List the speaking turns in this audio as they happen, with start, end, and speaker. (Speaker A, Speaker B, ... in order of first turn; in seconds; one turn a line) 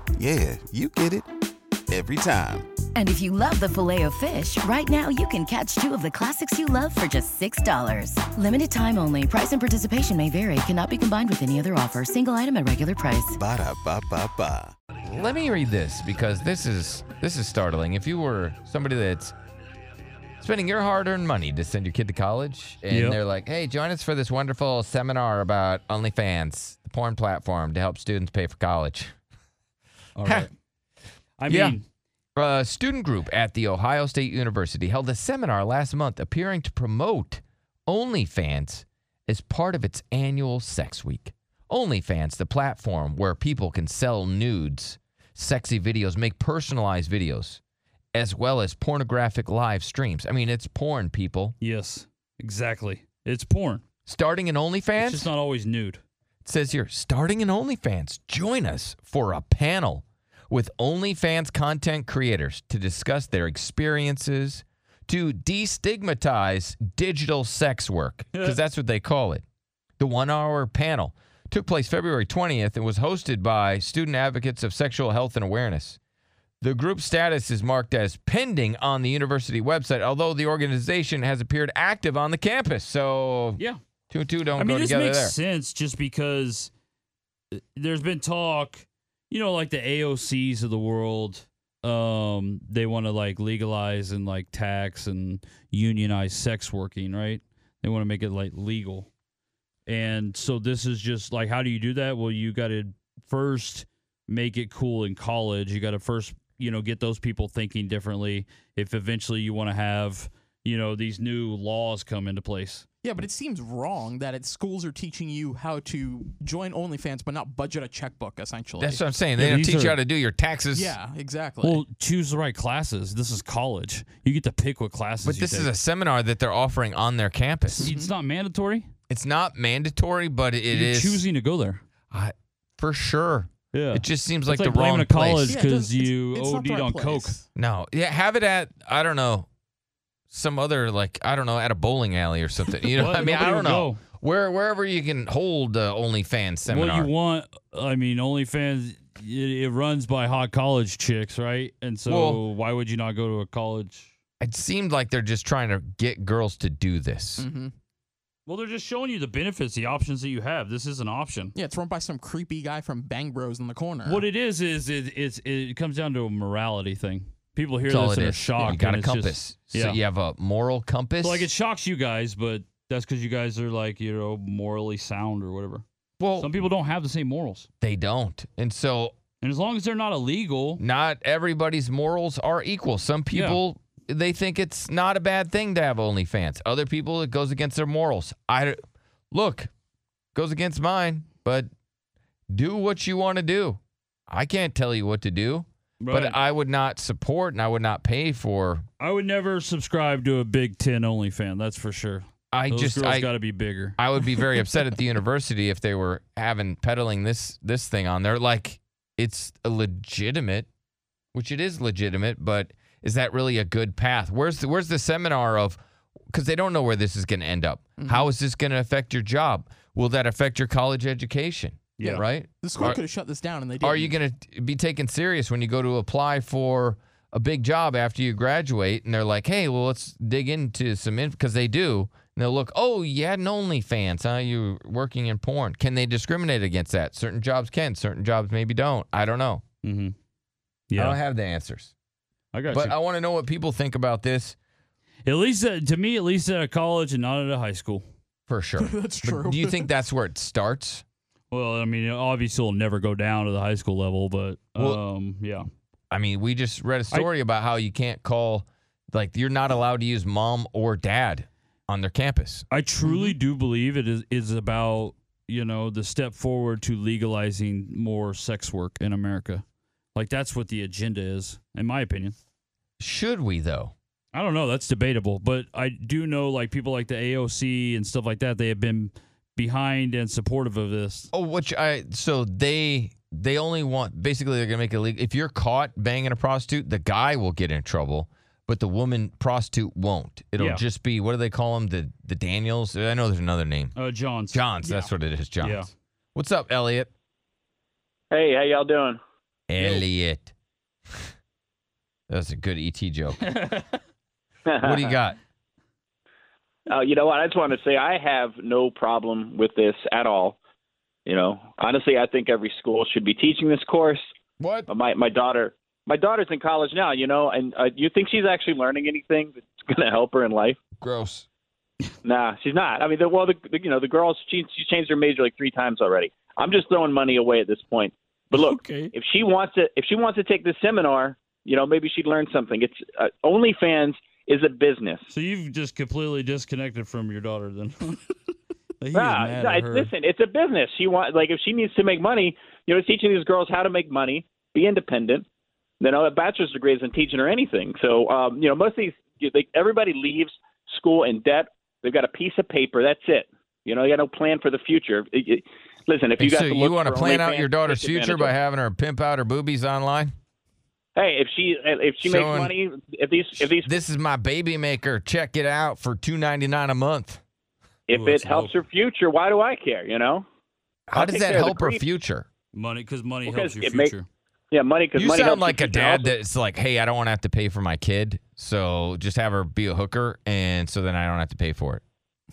Speaker A: 0.2-1.3
Speaker A: 1.9-2.7
Speaker B: 3.0-13.4
Speaker A: 13.4-14.7
Speaker C: 15.0-19.3
Speaker C: 20.4-29.1
Speaker D: 22.9-23.2
Speaker D: 30.2-30.5
Speaker D: 31.4-31.8
Speaker C: 31.5-31.8
Speaker C: 32.4-47.6
Speaker C: 48.1-51.6
Speaker D: 51.6-53.8
Speaker C: 54.1-55.3
Speaker D: 55.0-56.0
Speaker C: 56.5-69.4
Speaker C: 70.0-76.0
Speaker C: 76.6-85.3
Speaker D: 84.6-86.7
Speaker D: 87.7-99.1
Speaker D: 99.9-112.9
Speaker E: 113.0-119.1
Speaker C: 118.8-120.9
Speaker D: 119.3-120.0
Speaker E: 120.7-121.8
Speaker D: 121.6-125.7
Speaker C: 125.2-127.9
Speaker D: 127.7-128.9
Speaker E: 127.8-128.1
Speaker C: 129.1-131.2
Speaker D: 130.7-131.8
Speaker C: 132.1-135.6
Speaker D: 133.7-137.4
Speaker E: 135.4-137.5
Speaker C: 137.6-139.5
Speaker C: 140.3-147.1
Speaker D: 142.9-144.0
Speaker D: 146.7-154.1
Speaker C: 152.1-152.4
Speaker C: 154.4-157.5
Speaker E: 157.4-157.7
Speaker D: 158.5-161.5
Speaker E: 161.6-164.3
Speaker D: 164.1-170.0
Speaker C: 167.9-171.5
Speaker D: 171.2-175.8
Speaker C: 176.2-176.5
Speaker D: 176.4-177.7
Speaker C: 177.8-179.2
Speaker D: 179.4-180.8
Speaker C: 180.8-188.8
Speaker D: 183.3-183.6
Speaker C: 189.3-189.7
Speaker C: 190.3-191.7
Speaker C: 192.5-198.8
Speaker D: 196.0-196.4
Speaker D: 199.0-204.0
Speaker C: 202.5-203.3
Speaker C: 204.0-210.7
Speaker C: 211.3-215.8
Speaker C: 216.3-223.0
Speaker E: 218.0-218.3
Speaker E: 222.0-224.2
Speaker C: 223.8-239.6
Speaker D: 239.8-240.1
Speaker D: 240.9-241.2
Speaker C: 241.0-241.9
Speaker D: 242.5-242.9
Speaker C: 242.7-244.6
Speaker D: 245.3-248.0
Speaker C: 248.5-251.0
Speaker E: 248.8-249.9
Speaker D: 251.5-255.7
Speaker C: 254.8-255.0
Speaker C: 256.1-262.7
Speaker D: 262.7-269.6
Speaker E: 263.0-263.4
Speaker D: 270.1-272.4
Speaker C: 273.0-273.9
Speaker D: 274.3-281.3
Speaker C: 281.3-293.9
Speaker D: 294.0-294.7
Speaker C: 294.5-297.1
Speaker E: 294.8-295.1
Speaker D: 295.6-295.9
Speaker F: 298.3-299.2
Speaker C: 299.7-300.5
Speaker D: 299.8-300.1
Speaker C: 302.3-303.4
Speaker D: 303.4-303.9
Speaker F: 304.7-305.1
Speaker C: 304.8-305.4
Speaker F: 306.9-310.6
Speaker F: 311.3-314.2
Speaker C: 314.6-314.9
Speaker F: 314.9-320.8
Speaker C: 321.0-321.5
Speaker F: 322.2-335.3
Speaker D: 328.5-329.1
Speaker D: 335.3-338.3
Speaker D: 339.0-340.1
Speaker F: 339.1-345.4
Speaker F: 346.0-358.5
Speaker C: 356.4-360.3
Speaker F: 361.2-364.0
Speaker C: 362.2-362.7
Speaker C: 363.7-367.4
Speaker F: 368.1-370.4
Speaker D: 368.1-368.7
Speaker C: 371.1-372.5
Speaker F: 371.1-372.0
Speaker D: 372.7-374.3
Speaker F: 373.4-374.1
Speaker F: 374.7-376.3
Speaker C: 375.2-382.0